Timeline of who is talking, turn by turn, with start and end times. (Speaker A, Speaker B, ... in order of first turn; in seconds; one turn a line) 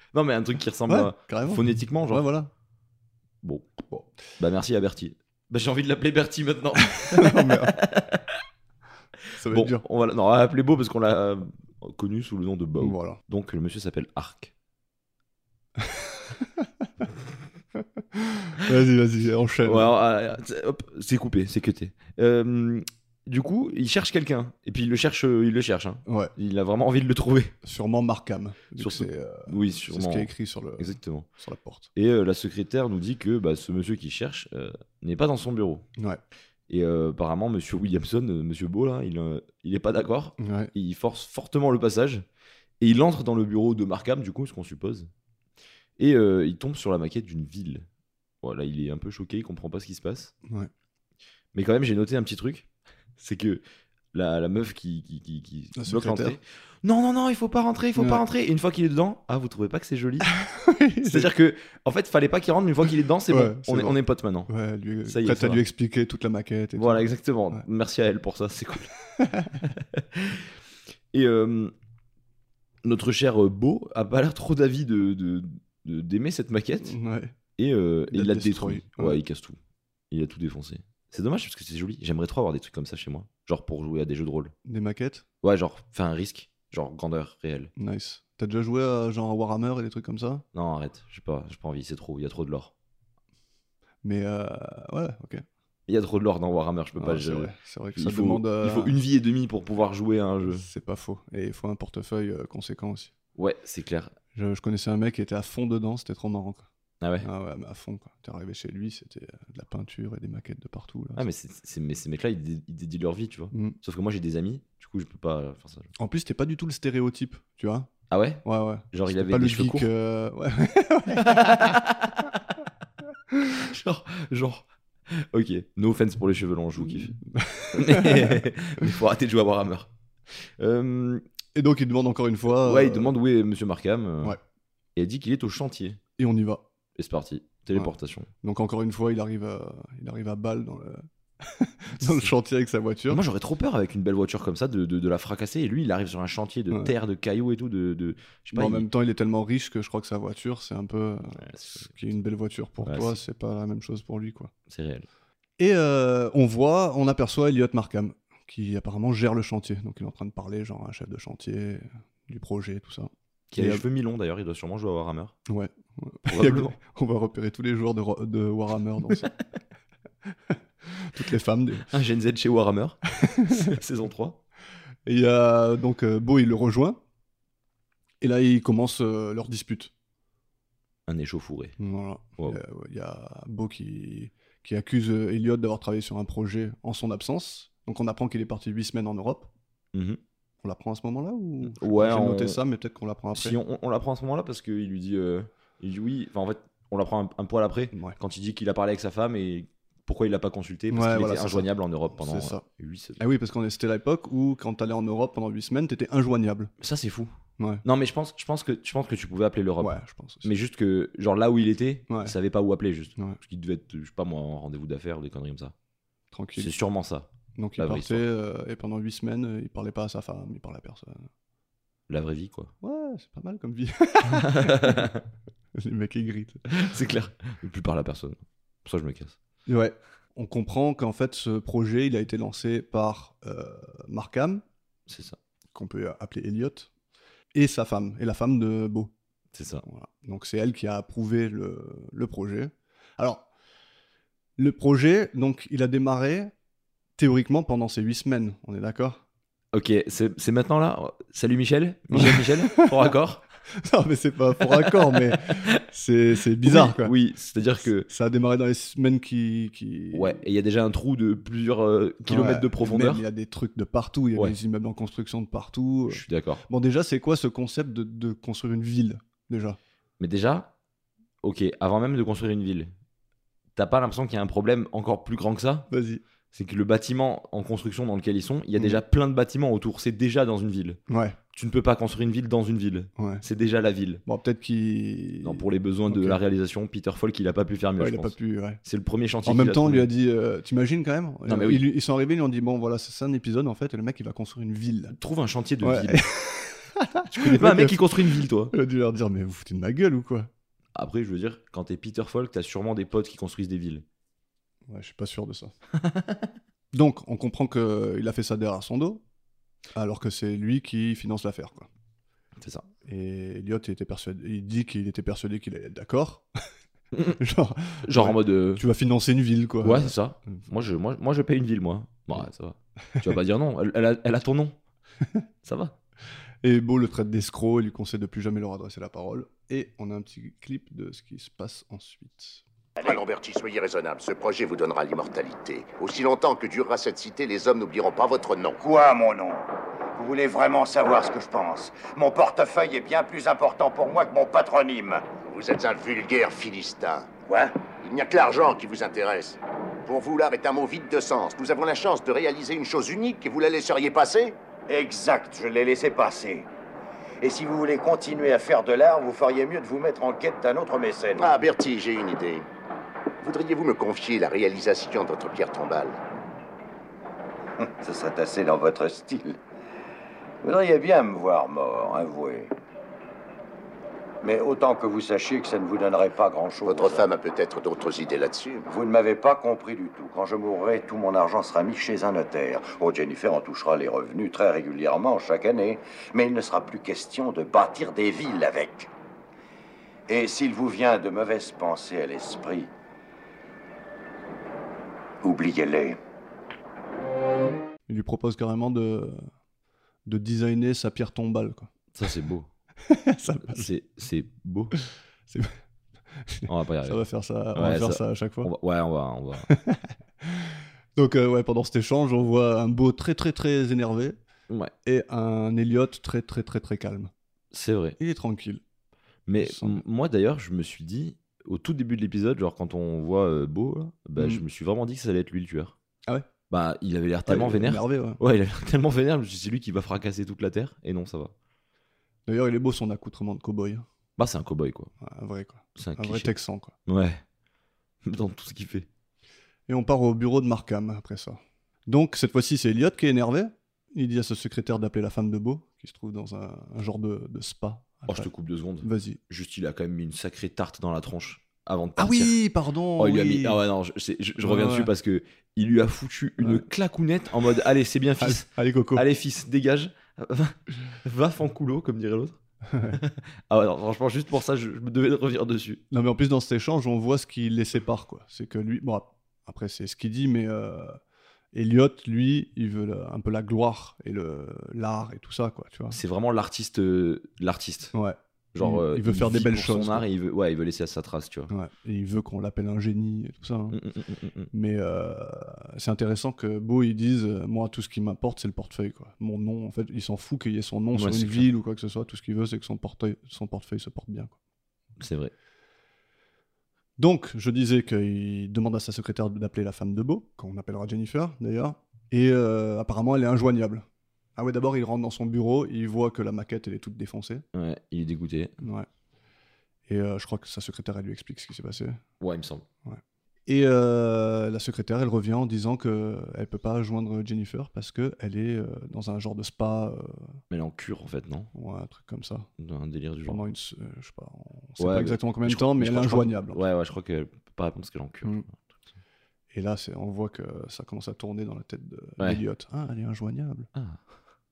Speaker A: 0.1-2.2
Speaker B: 0.9-2.5
Speaker A: 3.4-3.7
Speaker A: 4.4-8.4
Speaker B: 7.0-7.8
Speaker B: 9.3-9.8
Speaker A: 9.4-14.5
Speaker B: 12.8-13.2
Speaker B: 15.8-16.7
Speaker B: 18.1-19.9
Speaker A: 19.6-27.5
Speaker B: 26.1-26.3
Speaker B: 27.6-31.9
Speaker A: 28.8-31.3
Speaker A: 31.9-35.8
Speaker A: 36.7-42.2
Speaker B: 40.4-40.7
Speaker A: 42.8-45.1
Speaker A: 46.0-47.9
Speaker A: 48.4-50.3
Speaker A: 51.5-53.6
Speaker A: 54.1-60.3
Speaker B: 55.8-56.4
Speaker B: 58.0-58.2
Speaker B: 60.3-61.3
Speaker A: 61.0-64.5
Speaker B: 63.3-67.6
Speaker A: 65.0-65.6
Speaker A: 66.7-68.9
Speaker B: 69.2-69.6
Speaker A: 69.6-70.5
Speaker A: 71.1-71.7
Speaker A: 72.8-76.9
Speaker B: 76.8-77.3
Speaker A: 77.6-79.6
Speaker B: 78.1-79.2
Speaker A: 80.1-84.5
Speaker B: 84.6-85.2
Speaker A: 85.4-87.7
Speaker B: 87.8-90.4
Speaker A: 90.5-92.7
Speaker B: 94.0-95.4
Speaker A: 95.9-100.7
Speaker B: 97.0-99.0
Speaker B: 100.5-103.1
Speaker A: 103.3-104.1
Speaker B: 104.3-106.7
Speaker A: 107.0-107.3
Speaker B: 107.2-111.3
Speaker A: 111.2-115.9
Speaker B: 113.5-113.8
Speaker B: 116.0-117.9
Speaker A: 118.1-119.9
Speaker B: 118.4-121.7
Speaker A: 121.1-122.4
Speaker A: 123.6-127.2
Speaker B: 127.2-128.4
Speaker A: 127.7-131.2
Speaker B: 131.5-133.1
Speaker A: 132.5-134.4
Speaker A: 134.9-136.0
Speaker B: 136.2-136.6
Speaker A: 136.9-138.3
Speaker B: 137.7-143.2
Speaker A: 142.0-142.3
Speaker A: 143.1-148.8
Speaker B: 148.5-154.5
Speaker A: 151.3-151.9
Speaker A: 152.8-153.2
Speaker A: 154.7-155.1
Speaker B: 155.6-163.8
Speaker A: 163.5-165.3
Speaker B: 165.5-169.3
Speaker A: 166.2-166.8
Speaker B: 170.5-171.9
Speaker A: 171.9-174.4
Speaker B: 173.2-173.7
Speaker B: 175.1-177.0
Speaker B: 178.2-179.9
Speaker A: 181.1-181.8
Speaker B: 181.8-189.5
Speaker A: 189.9-190.2
Speaker B: 190.6-193.6
Speaker A: 191.6-192.6
Speaker A: 193.3-203.2
Speaker B: 200.9-202.7
Speaker B: 203.2-206.7
Speaker A: 206.8-207.3
Speaker B: 207.6-207.8
Speaker A: 207.8-215.7
Speaker B: 209.8-210.5
Speaker B: 212.1-212.3
Speaker B: 216.3-216.7
Speaker A: 216.6-218.2
Speaker B: 217.6-221.3
Speaker A: 222.1-222.7
Speaker B: 222.8-225.1
Speaker A: 224.3-225.2
Speaker B: 225.8-226.8
Speaker A: 226.7-229.4
Speaker B: 229.7-234.6
Speaker A: 235.1-235.4
Speaker B: 235.7-236.9
Speaker B: 237.5-239.1
Speaker A: 239.5-239.8
Speaker B: 239.8-243.5
Speaker B: 244.6-246.5
Speaker B: 247.2-249.2
Speaker A: 249.7-253.4
Speaker B: 252.1-253.1
Speaker B: 253.8-257.1
Speaker A: 254.6-255.8
Speaker A: 256.6-258.1
Speaker B: 258.0-260.4
Speaker A: 260.1-263.2
Speaker B: 262.2-269.8
Speaker A: 266.1-266.6
Speaker A: 270.2-270.7
Speaker A: 271.4-272.9
Speaker A: 273.8-275.9
Speaker B: 275.9-276.2
Speaker A: 276.5-281.0
Speaker B: 281.1-281.4
Speaker A: 281.5-284.2
Speaker B: 283.2-283.4
Speaker B: 284.2-286.4
Speaker A: 285.4-290.1
Speaker B: 288.0-288.8
Speaker B: 289.4-295.1
Speaker A: 291.5-291.8
Speaker A: 295.1-296.3
Speaker B: 295.8-300.5
Speaker A: 297.3-298.7
Speaker A: 300.9-304.0
Speaker B: 304.9-305.7
Speaker A: 306.0-306.5
Speaker B: 306.9-309.2
Speaker B: 309.9-311.9
Speaker A: 312.6-312.9
Speaker B: 313.1-316.4
Speaker B: 317.4-320.6
Speaker A: 318.0-318.8
Speaker A: 319.8-324.8
Speaker A: 325.6-325.9
Speaker B: 326.6-332.6
Speaker C: 333.0-338.8
Speaker D: 338.8-345.2
Speaker C: 345.5-347.3
Speaker D: 347.5-347.7
Speaker C: 348.0-354.6
Speaker D: 354.9-356.7
Speaker D: 357.4-361.5
Speaker C: 361.4-362.7
Speaker C: 363.4-366.2
Speaker D: 367.8-369.6
Speaker D: 370.6-372.7
Speaker D: 374.4-377.3
Speaker C: 376.8-378.9
Speaker D: 378.8-389.1
Speaker D: 390.3-392.9
Speaker D: 395.4-396.2
Speaker B: 398.1-399.4
Speaker B: 400.2-401.9
Speaker A: 402.1-402.7
Speaker B: 403.1-403.9
Speaker A: 403.6-404.9
Speaker B: 405.5-405.7
Speaker B: 406.4-408.7
Speaker A: 406.7-407.2
Speaker A: 407.7-409.7
Speaker B: 409.7-414.4
Speaker B: 415.0-417.3
Speaker A: 417.7-418.2
Speaker B: 418.2-418.8
Speaker A: 419.5-425.9
Speaker B: 419.6-420.0
Speaker B: 424.4-424.6
Speaker A: 426.7-431.5
Speaker B: 427.5-428.4
Speaker B: 432.5-434.1
Speaker A: 434.4-435.1
Speaker B: 435.2-436.9
Speaker A: 435.9-436.5
Speaker A: 437.1-437.4
Speaker A: 438.2-439.1
Speaker B: 439.9-448.5
Speaker A: 448.3-452.6
Speaker B: 449.0-449.4
Speaker B: 452.2-453.8
Speaker A: 453.2-466.0
Speaker B: 454.6-455.1
Speaker B: 458.4-459.2
Speaker B: 462.9-463.2
Speaker B: 466.1-471.2
Speaker B: 471.7-476.2
Speaker A: 476.1-478.1
Speaker B: 478.1-480.2
Speaker A: 478.7-481.7
Speaker B: 481.7-484.0
Speaker A: 483.9-484.7
Speaker B: 484.7-494.6
Speaker A: 491.1-491.7
Speaker A: 495.2-495.5
Speaker B: 497.2-504.0
Speaker B: 504.6-507.6
Speaker A: 507.7-508.7
Speaker B: 508.8-509.1
Speaker B: 510.1-512.2
Speaker A: 512.4-512.8
Speaker B: 513.0-520.6
Speaker A: 520.7-521.7
Speaker B: 521.7-522.7
Speaker A: 522.8-523.6
Speaker B: 523.5-526.8
Speaker A: 525.0-528.8
Speaker B: 529.7-533.9
Speaker A: 533.9-534.2